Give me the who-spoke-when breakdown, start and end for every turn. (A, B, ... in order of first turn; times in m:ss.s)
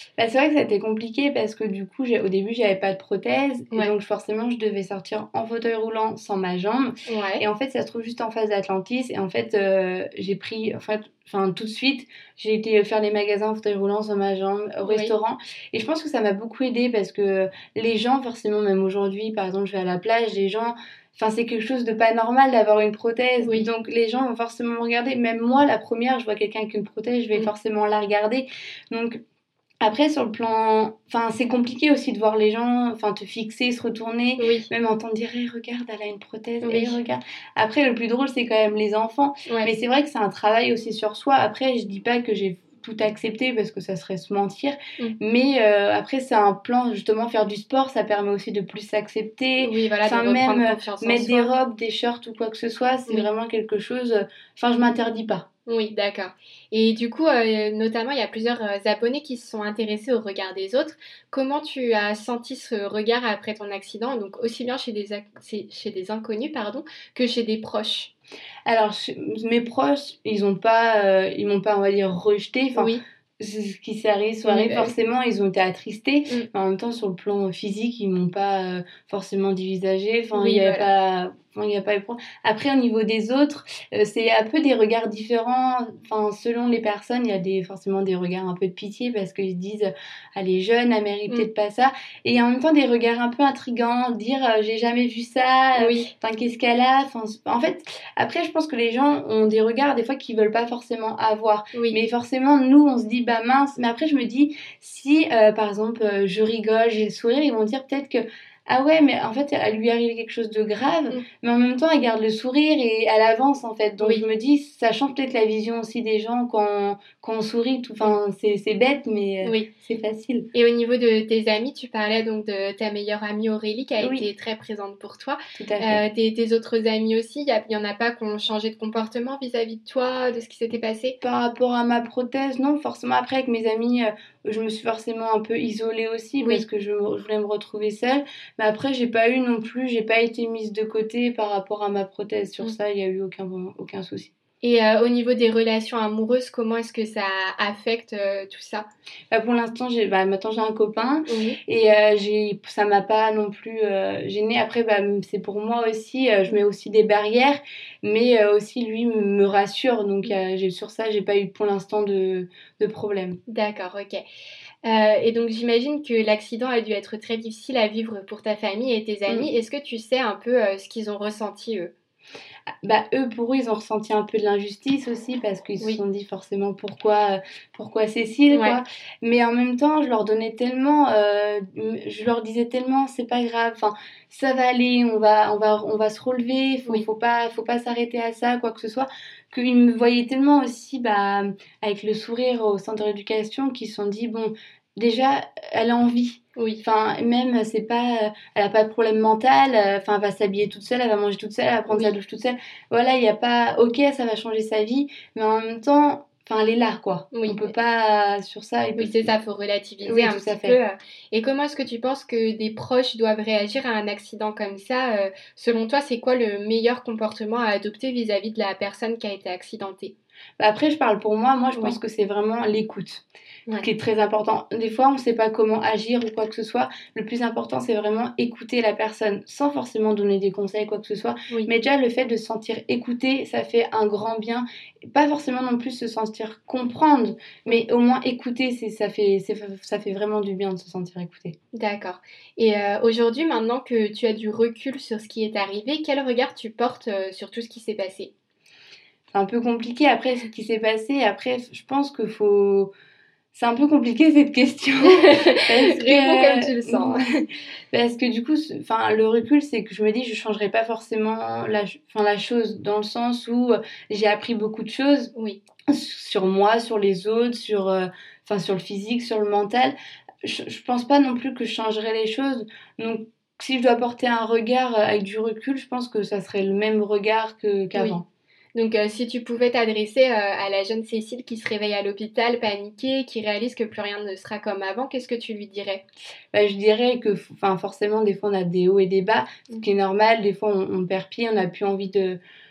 0:00.2-0:29.2 A
0:07.1-0:07.4 B
0:14.8-0:15.1 B
0:23.4-0:23.7 B
0:29.8-0:55.5 A
0:34.4-0:34.7 B
0:36.6-0:37.0 B
0:39.5-0:39.7 B
0:49.6-0:51.5 B
0:55.7-1:08.1 B
1:08.7-2:00.5 A
1:12.8-1:13.0 B
1:14.4-1:14.9 B
1:20.4-1:20.8 B
1:35.8-1:36.1 B
1:41.7-1:42.0 B
1:59.4-1:59.7 B
2:00.5-2:11.2 B
2:04.0-2:04.3 A
2:05.6-2:06.0 A
2:11.2-2:24.3 A
2:24.6-2:28.9 B
2:29.3-2:43.4 A
2:31.3-2:31.6 B
2:43.5-2:44.2 B
2:44.8-2:51.9 B
2:52.8-3:29.2 A
2:58.5-2:58.8 B
3:16.6-3:16.8 B
3:21.9-3:22.1 B
3:27.3-3:27.7 B
3:29.0-3:40.1 B
3:30.0-3:30.8 A
3:40.6-3:43.2 A
3:43.8-4:01.6 A
4:01.7-4:08.3 B
4:09.3-4:12.9 A
4:13.5-4:17.3 A
4:15.0-4:17.3 B
4:17.9-4:25.3 A
4:25.4-4:25.6 B
4:25.9-4:38.2 A
4:38.8-4:46.0 B
4:46.5-4:52.4 A